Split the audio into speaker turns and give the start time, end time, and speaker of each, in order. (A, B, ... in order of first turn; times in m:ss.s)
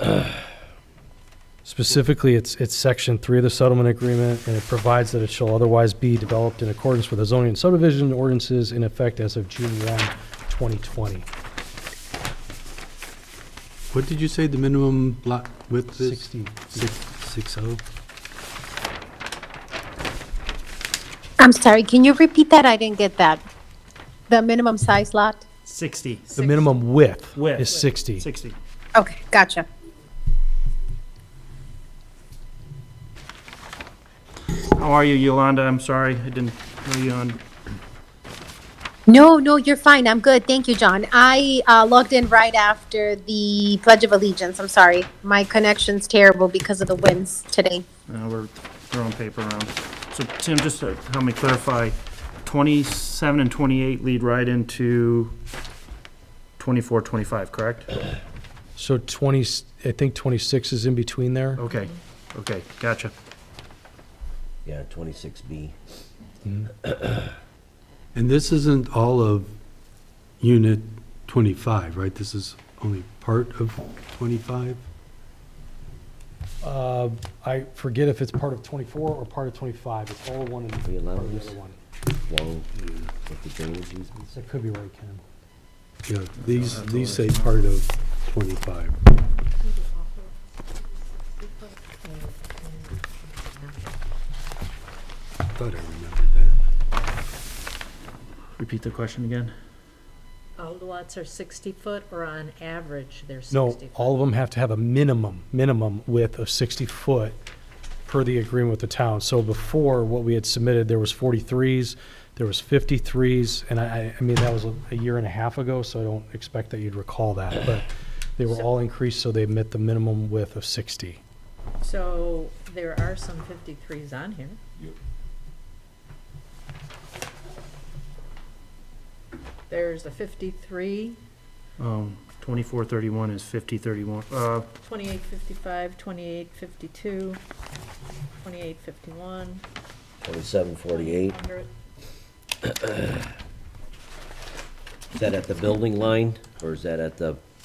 0:01.6-0:11.3 A
0:13.9-0:17.8 B
0:16.0-0:17.0 A
0:21.4-0:23.4 C
0:24.3-0:25.4 C
0:25.6-0:26.4 D
0:26.3-0:26.7 E
0:26.4-0:28.3 A
0:27.3-0:28.6 D
0:29.0-0:29.7 C
0:34.5-0:37.4 D
0:39.1-0:47.8 C
0:48.1-0:55.3 D
0:56.6-0:57.9 D
0:58.8-1:01.6 A
1:01.6-1:03.1 D
1:04.6-1:05.7 F
1:08.1-1:09.5 B
1:10.4-1:14.9 B
1:16.6-1:21.8 A
1:20.8-1:21.6 F
1:22.2-1:22.7 F
1:22.8-1:23.1 B
1:23.2-1:24.1 F
1:24.1-1:25.2 A
1:26.0-1:29.0 B
1:26.4-1:27.5 D
1:29.6-1:33.9 E
1:35.5-1:36.6 B
1:38.6-1:39.5 D
1:40.6-1:44.2 E
1:43.5-1:47.4 A
1:48.0-2:01.2 A
1:58.4-1:58.7 E
2:01.8-2:04.6 E
2:09.7-2:11.2 E
2:11.8-2:14.7 D
2:14.8-2:17.4 E
2:18.4-2:19.6 E
2:20.2-2:21.4 F
2:20.9-2:21.7 E
2:22.7-2:23.2 F
2:25.1-2:27.4 F